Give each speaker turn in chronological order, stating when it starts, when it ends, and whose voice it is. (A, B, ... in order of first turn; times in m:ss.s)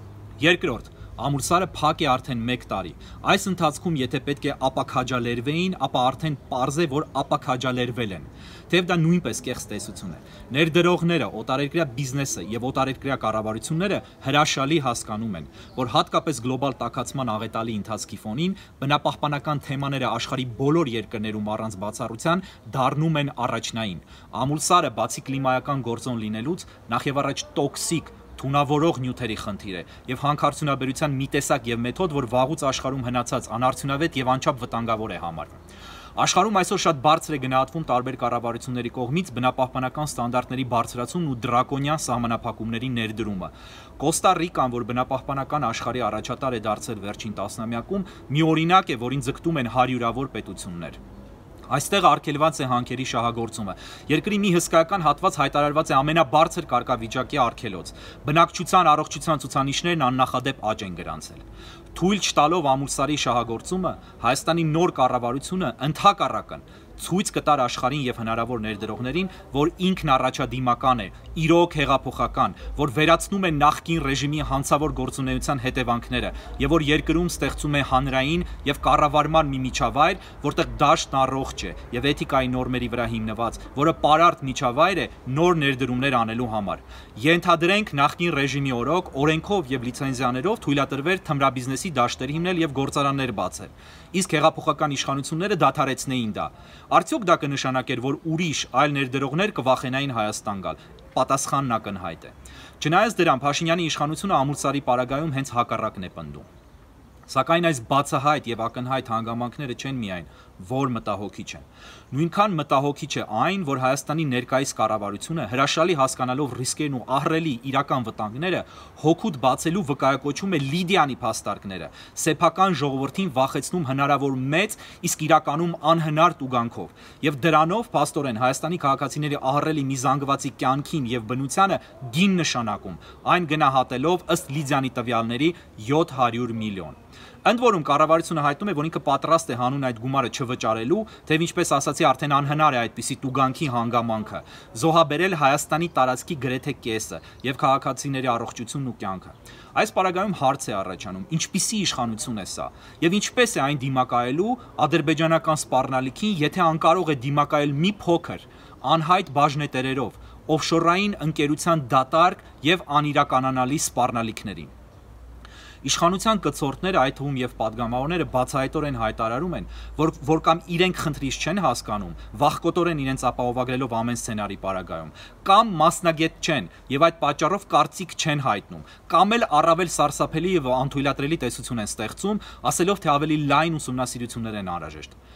0:00.4-0:35.6 A
0:36.2-0:51.0 A
0:51.7-1:01.4 A
1:01.9-1:46.5 A
1:47.3-2:44.7 A
2:45.8-3:05.2 A